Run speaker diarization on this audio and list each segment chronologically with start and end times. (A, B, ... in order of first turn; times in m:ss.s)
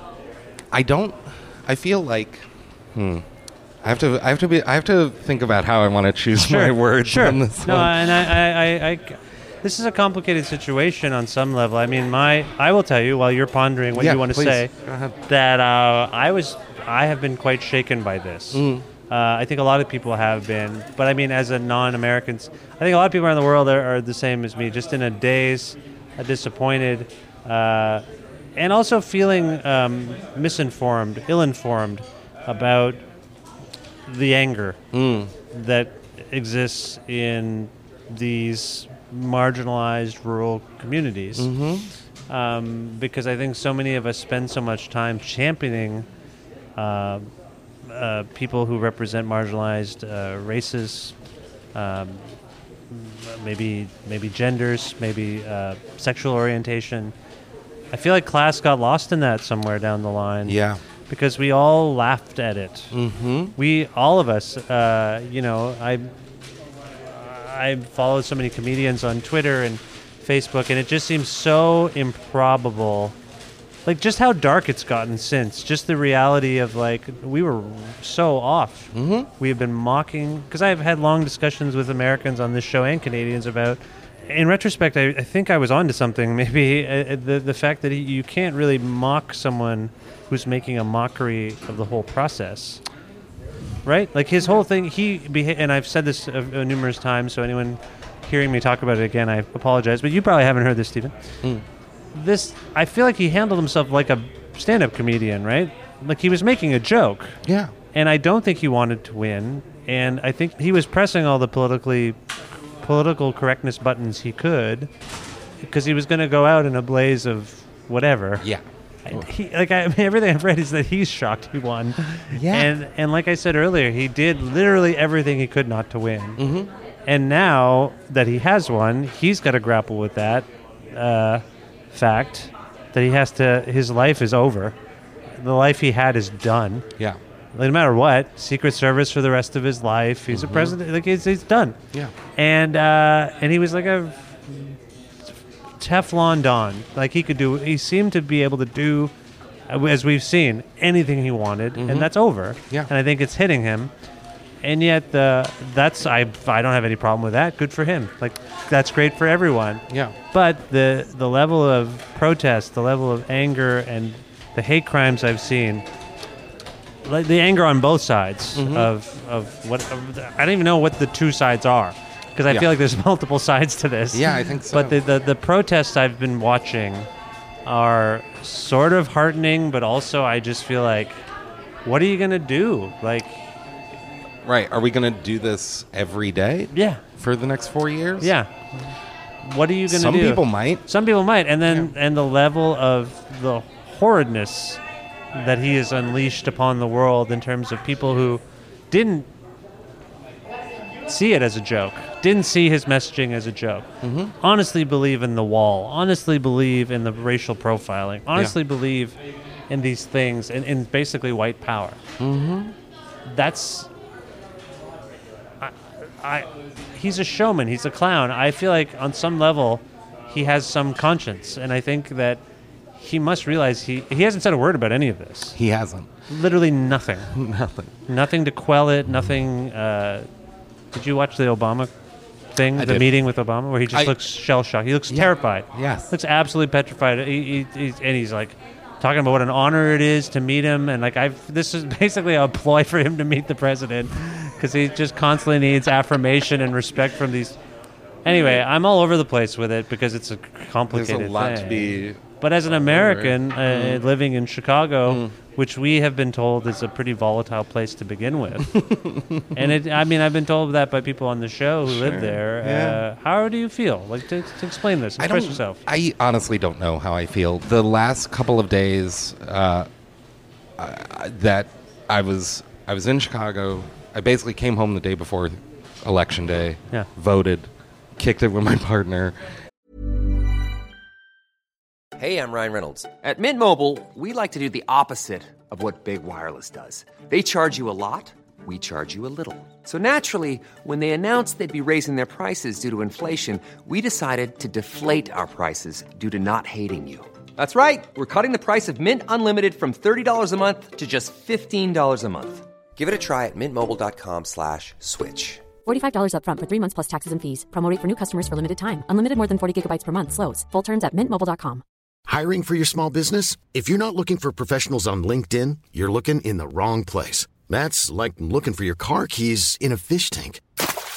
0:00.7-0:03.3 A
0:03.8-0:08.3 A
0:06.4-0:14.7 B
0:14.0-0:15.2 A
0:15.3-0:28.0 B
0:18.5-0:18.9 A
0:28.6-0:33.0 B
0:34.1-0:34.8 B
0:34.9-0:35.3 A
0:35.5-0:41.5 B
0:41.4-0:41.9 A
0:42.3-0:46.1 B
0:46.8-0:47.3 B
0:47.9-0:51.1 B
0:51.7-0:52.4 B
0:52.9-0:57.1 B
0:57.9-1:00.6 B
1:00.5-1:00.8 A
1:01.1-1:02.9 B
1:02.9-1:03.6 A
1:03.6-1:06.1 B
1:07.1-1:13.2 B
1:13.9-1:32.8 B
1:18.9-1:19.3 A
1:33.8-1:41.1 B
1:42.1-1:47.4 B
1:47.4-1:47.7 A
1:47.9-1:52.2 B
1:52.8-1:54.9 B
1:55.6-1:58.4 B
1:58.4-1:59.3 A
1:59.1-2:06.4 B
2:02.3-2:02.7 A
2:06.4-2:06.7 A
2:07.1-2:14.8 B
2:15.4-2:16.8 B
2:17.5-2:21.8 B
2:20.3-2:20.8 A
2:22.4-2:24.8 B
2:25.8-2:29.1 B
2:29.7-2:33.9 B
2:31.8-2:32.1 A
2:34.6-2:45.8 B
2:39.9-2:40.2 A
2:47.0-2:57.1 B
2:48.6-2:48.9 A
2:54.1-2:55.0 A
2:57.7-3:01.2 B
3:01.8-3:03.4 B
3:04.4-3:08.3 A
3:06.7-3:07.0 B
3:08.2-3:08.5 B
3:09.4-3:14.8 B
3:09.9-3:10.8 A
3:15.3-3:19.3 B
3:21.1-3:23.9 B
3:24.0-3:24.3 A
3:24.4-3:29.2 B
3:29.7-3:32.0 B
3:32.2-3:32.7 A
3:33.3-3:33.9 B
3:35.6-3:42.4 B
3:43.0-3:45.6 B
3:45.6-3:46.1 A
3:46.3-3:47.3 B
3:47.3-3:47.9 A
3:48.1-3:50.3 B
3:50.9-3:51.9 B
3:52.6-4:07.6 B
3:52.8-3:53.1 A
3:53.9-3:54.2 A
3:55.1-3:56.1 A
4:08.2-4:18.7 B
4:10.9-4:14.0 A
4:15.1-4:15.3 A
4:18.6-4:19.7 A
4:19.5-4:25.8 B
4:21.9-4:23.0 A
4:25.2-4:29.9 A
4:30.8-4:39.4 A
4:42.2-5:05.6 C
5:05.8-5:11.8 D
5:12.3-5:20.6 E